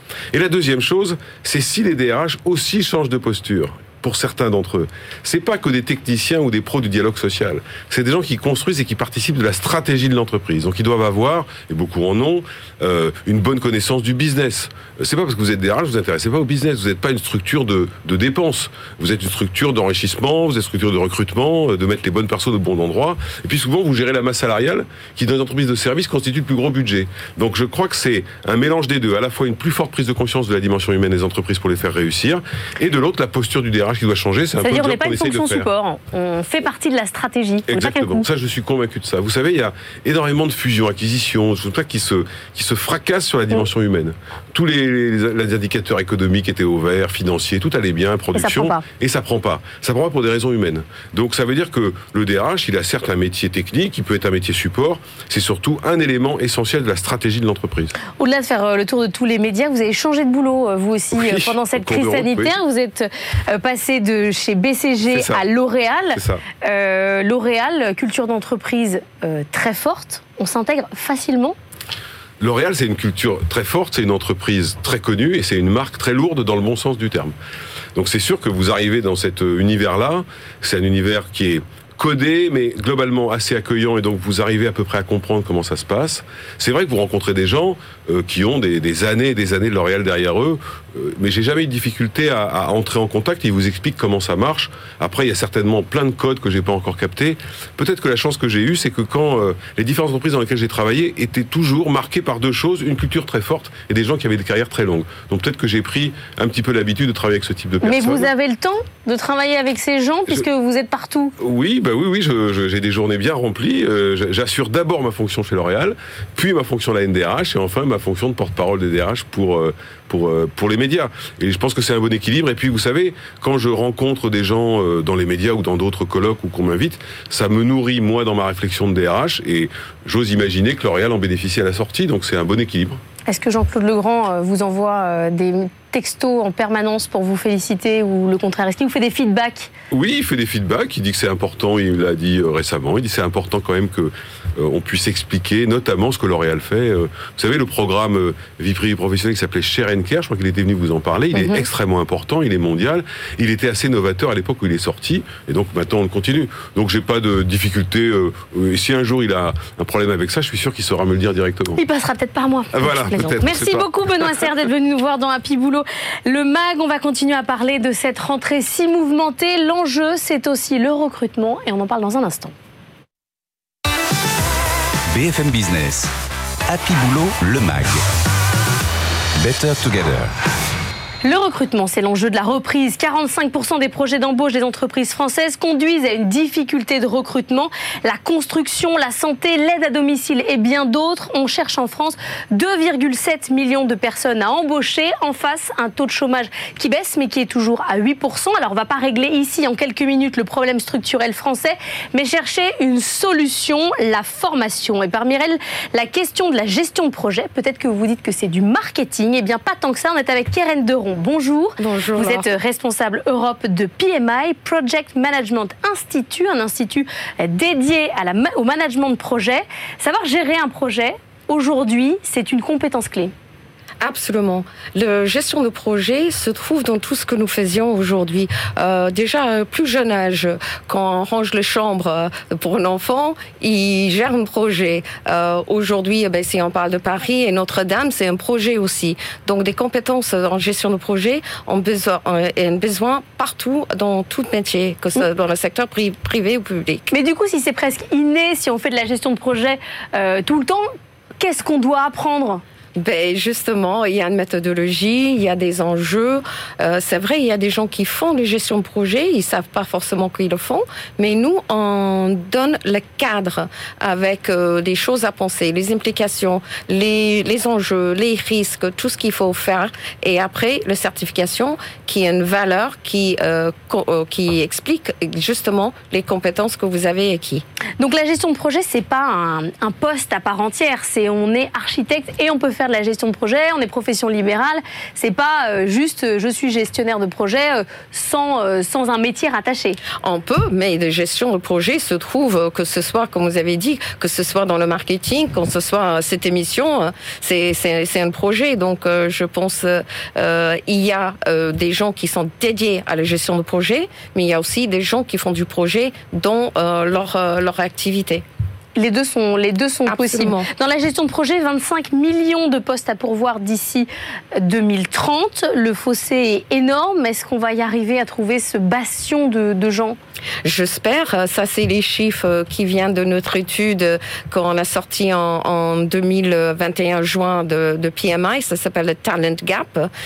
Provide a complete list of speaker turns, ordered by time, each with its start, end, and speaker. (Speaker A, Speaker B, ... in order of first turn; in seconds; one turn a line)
Speaker A: 0.3-35.7
Speaker B: 34.6-38.2
Speaker A: 37.7-58.0
Speaker B: 48.3-48.8
Speaker B: 58.2-71.5
Speaker A: 61.1-62.6
Speaker A: 65.1-65.5
Speaker A: 66.1-66.4
Speaker A: 72.4-77.3
Speaker A: 77.9-108.3
Speaker B: 107.8-111.3
Speaker A: 111.4-133.0
Speaker B: 133.2-139.7
Speaker A: 139.9-161.8
Speaker B: 151.3-151.6
Speaker B: 161.7-172.5
Speaker A: 162.7-164.3
Speaker C: 175.1-176.1
Speaker C: 176.7-178.0
Speaker C: 179.4-180.3
Speaker B: 181.2-223.3
Speaker D: 211.8-212.5
Speaker D: 224.0-247.1
Speaker B: 247.1-250.9
Speaker B: 251.4-252.6
Speaker D: 253.0-277.6
Speaker B: 278.0-290.0
Speaker D: 290.2-308.4
Speaker B: 308.9-320.2
Speaker D: 310.1-310.7
Speaker D: 320.6-330.1